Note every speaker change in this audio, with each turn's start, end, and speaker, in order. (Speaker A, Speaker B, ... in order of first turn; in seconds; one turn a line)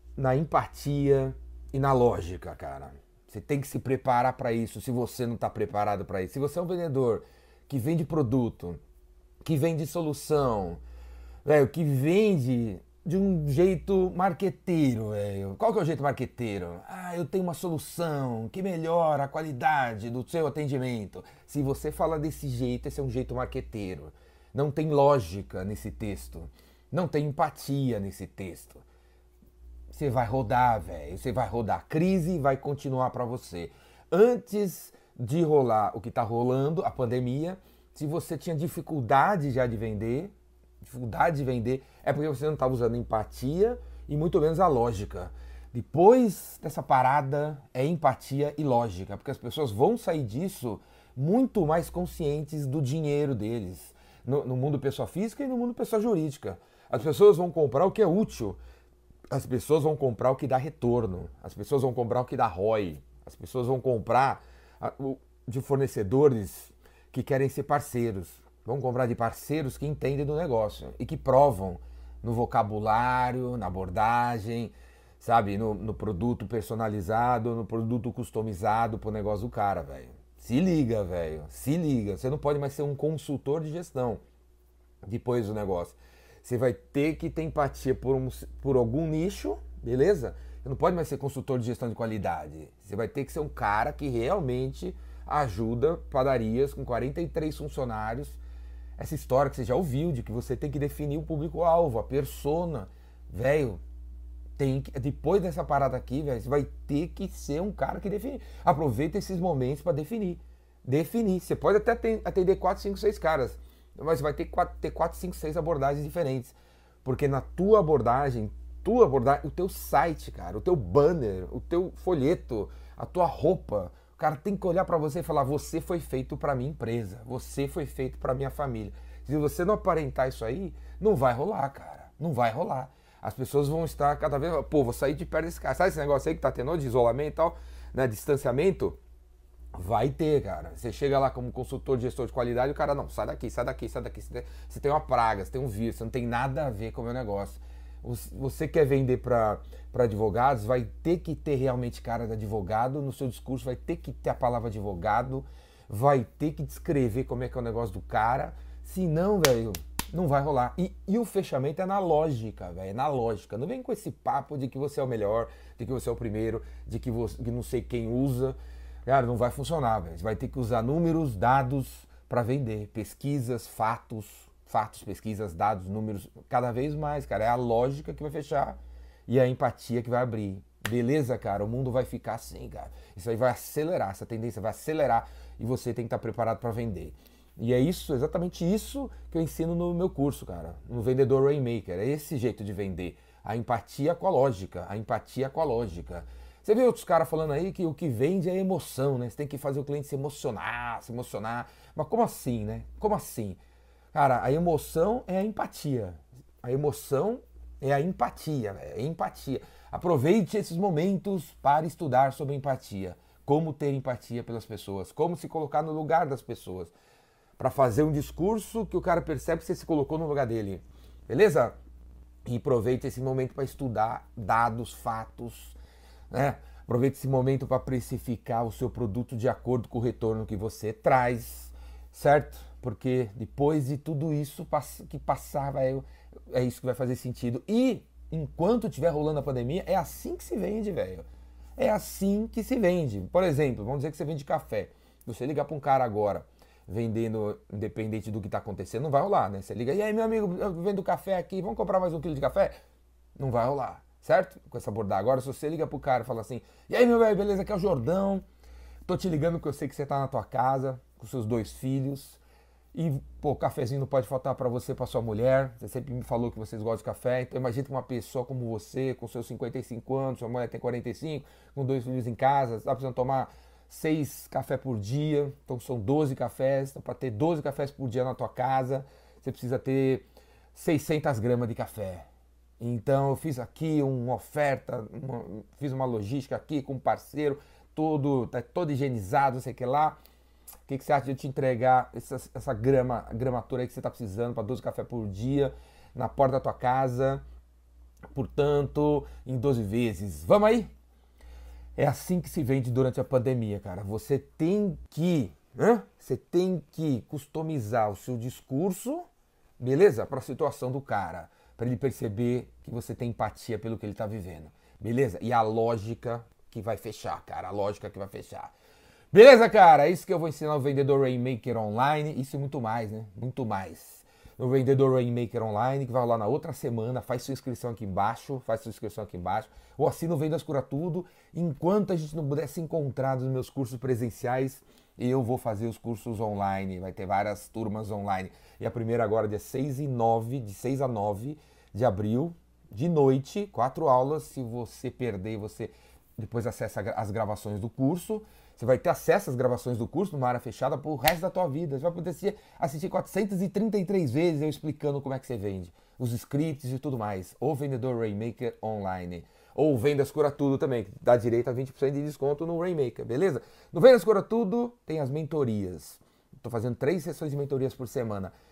Speaker A: 0.2-8.8
Speaker A: 9.4-10.8
Speaker A: 11.4-28.8
Speaker A: 29.9-58.6
Speaker A: 59.3-84.2
Speaker A: 85.0-98.4
Speaker A: 99.0-103.8
Speaker A: 104.6-139.0
Speaker A: 139.7-203.6
Speaker A: 204.1-216.9
Speaker A: 217.6-221.8
Speaker A: 222.4-225.8
Speaker A: 226.3-241.3
Speaker A: 241.8-252.8
Speaker A: 253.4-258.4
Speaker A: 259.1-262.4
Speaker A: 262.9-282.3
Speaker A: 282.8-290.2
Speaker A: 290.9-297.4
Speaker A: 298.3-300.9
Speaker A: 302.0-309.3
Speaker A: 309.8-318.7
Speaker A: 319.3-368.5